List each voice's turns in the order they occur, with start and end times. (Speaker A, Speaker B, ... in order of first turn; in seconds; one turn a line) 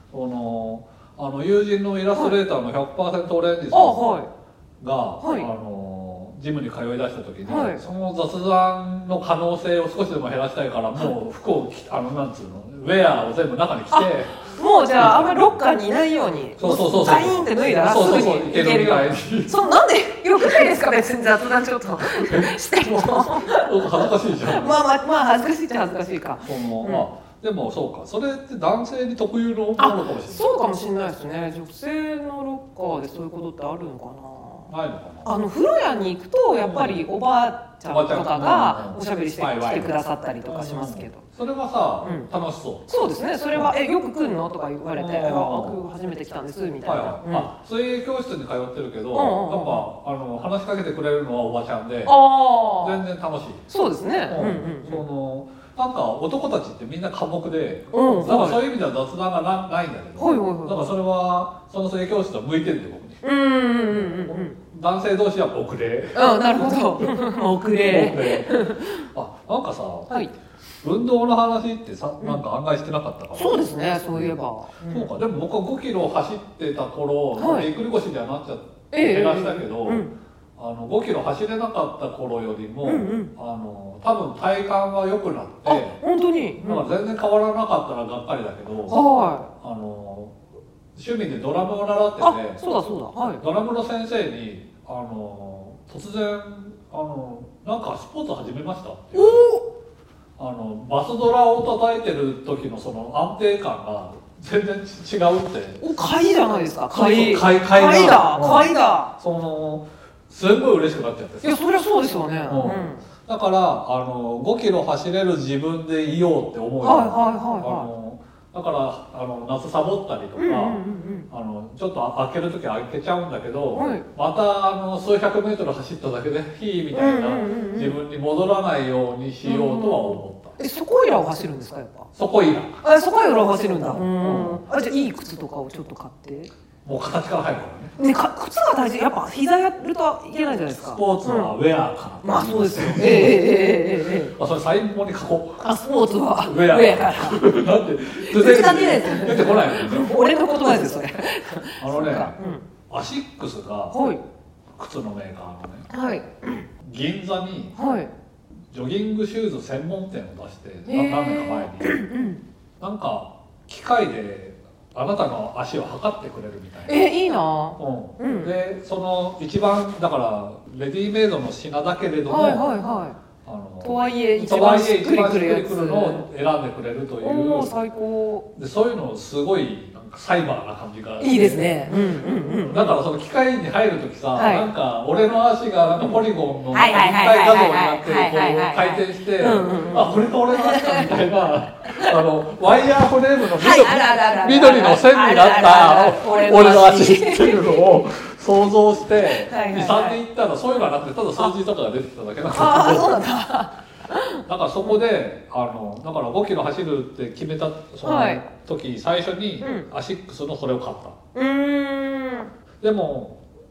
Speaker A: 0.1-4.2
Speaker B: 3.7-4.3
Speaker A: 4.8-14.4
Speaker B: 5.2-5.5
Speaker B: 7.5-7.8
Speaker B: 13.9-27.1
Speaker A: 15.0-15.5
Speaker A: 16.6-19.6
Speaker A: 22.2-24.8
Speaker A: 26.4-30.4
Speaker B: 29.8-34.7
Speaker A: 34.7-35.3
Speaker B: 35.2-41.2
Speaker A: 36.6-37.0
Speaker A: 37.9-39.9
Speaker A: 40.5-42.9
Speaker B: 42.0-42.3
Speaker B: 42.9-47.5
Speaker A: 45.0-45.8
Speaker A: 46.8-52.2
Speaker B: 49.1-49.9
Speaker B: 52.0-53.0
Speaker A: 52.8-53.6
Speaker B: 53.7-55.0
Speaker A: 54.3-63.2
Speaker B: 57.9-58.6
Speaker B: 60.2-60.9
Speaker B: 63.2-64.5
Speaker A: 63.9-70.1
Speaker B: 66.1-69.1
Speaker A: 70.8-86.0
Speaker B: 73.3-75.1
Speaker B: 77.4-77.7
Speaker B: 78.9-80.1
Speaker B: 82.8-83.3
Speaker B: 85.7-86.9
Speaker A: 86.6-89.0
Speaker B: 88.9-89.5
Speaker A: 89.5-90.4
Speaker A: 90.9-92.6
Speaker B: 92.2-93.4
Speaker A: 93.4-99.5
Speaker B: 99.1-99.7
Speaker A: 100.4-105.8
Speaker B: 105.8-109.1
Speaker A: 106.9-111.6
Speaker B: 111.4-113.0
Speaker A: 112.5-130.5
Speaker B: 116.8-117.9
Speaker B: 120.4-121.3
Speaker B: 123.7-124.0
Speaker B: 126.9-128.0
Speaker B: 129.4-132.1
Speaker A: 132.1-132.8
Speaker B: 132.8-136.5
Speaker A: 133.8-134.6
Speaker A: 136.8-137.9
Speaker B: 138.0-141.6
Speaker A: 140.7-143.6
Speaker B: 142.2-144.3
Speaker A: 144.3-145.6
Speaker B: 145.6-147.4
Speaker A: 146.4-150.1
Speaker B: 148.2-152.6
Speaker A: 151.8-154.0
Speaker B: 153.9-154.2
Speaker A: 154.8-155.9
Speaker B: 155.9-156.6
Speaker A: 156.8-157.8
Speaker B: 157.8-158.1
Speaker A: 158.7-162.1
Speaker B: 160.8-162.4
Speaker A: 162.8-167.1
Speaker B: 166.9-168.5
Speaker A: 167.8-172.7
Speaker B: 172.3-173.2
Speaker A: 173.4-177.7
Speaker B: 173.8-176.2
Speaker B: 177.2-178.5
Speaker A: 178.5-203.2
Speaker B: 181.2-182.9
Speaker B: 184.3-184.7
Speaker B: 186.7-191.2
Speaker B: 193.5-198.0
Speaker B: 199.4-200.2
Speaker B: 202.5-205.0
Speaker A: 204.4-211.2
Speaker B: 208.0-208.4
Speaker B: 209.6-209.9
Speaker B: 211.3-212.5
Speaker A: 212.8-213.4